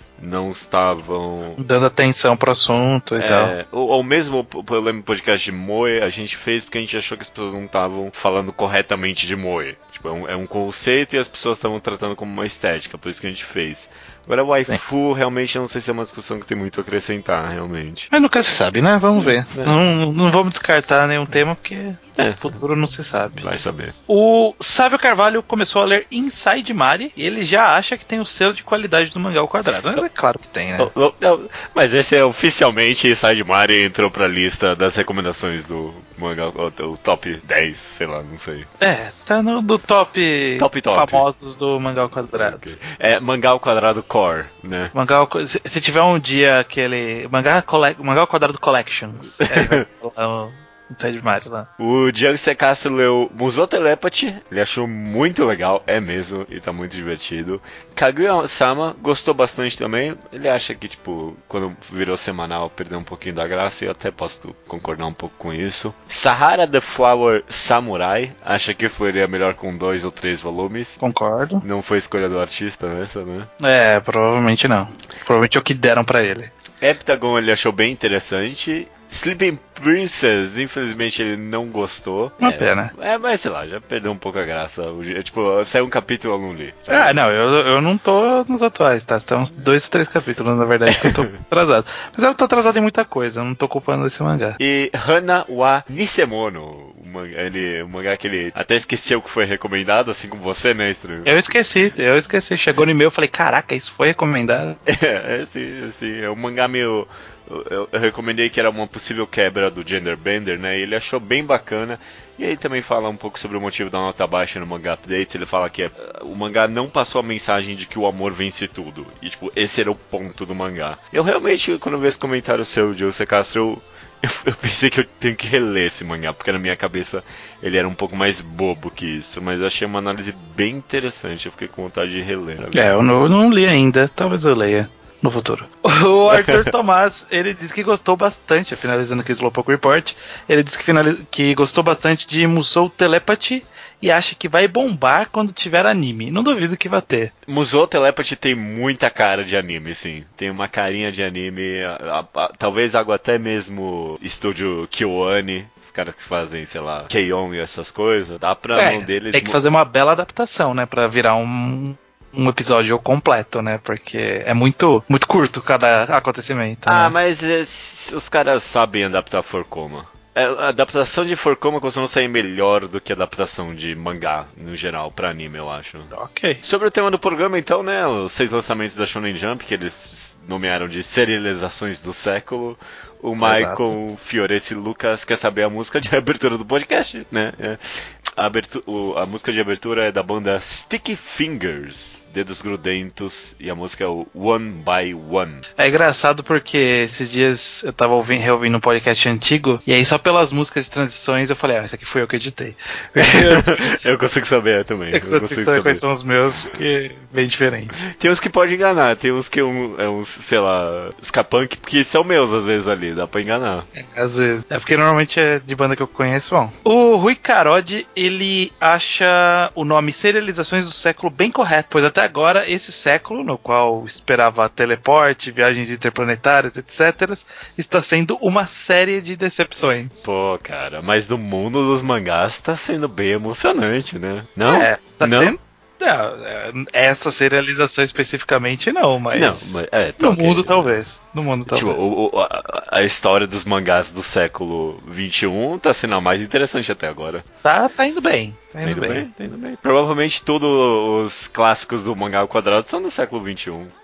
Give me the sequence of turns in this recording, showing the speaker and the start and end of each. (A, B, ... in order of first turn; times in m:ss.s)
0:00.2-0:01.6 A
0:01.6-0:03.5 B
0:03.2-0:18.1 A
0:18.1-0:23.5 B
0:19.5-0:19.8 A
0:22.2-0:22.6 A
0:23.4-0:23.9 A
0:24.1-0:30.9 B
0:30.8-0:38.7 A
0:38.8-0:42.7 B
0:40.6-0:41.2 A
0:42.3-0:44.9 A
0:44.9-0:51.7 B
0:49.4-0:49.8 A
0:51.8-1:11.0 A
1:11.0-1:11.6 B
1:11.6-1:13.5 A
1:13.6-1:16.5 B
1:16.8-1:27.2 A
1:22.4-1:22.9 B
1:26.9-1:34.6 B
1:30.9-1:31.4 A
1:34.6-1:41.5 A
1:41.2-1:44.8 B
1:44.9-2:13.0 A
2:12.7-2:27.3 B
2:16.3-2:16.6 A
2:27.5-2:39.6 A
2:38.8-2:47.2 B
2:46.9-2:56.1 A
2:56.1-2:56.6 B
2:56.6-3:07.8 A
3:03.4-3:04.0 B
3:08.4-3:15.6 A
3:15.8-3:23.9 B
3:23.2-3:26.0 A
3:25.1-3:28.0 B
3:28.1-3:33.9 A
3:34.0-3:50.2 B
3:50.2-3:55.6 A
3:54.6-4:02.0 B
3:59.3-4:01.0 A
4:01.7-4:07.4 A
4:07.6-4:09.3 B
4:08.8-4:13.9 A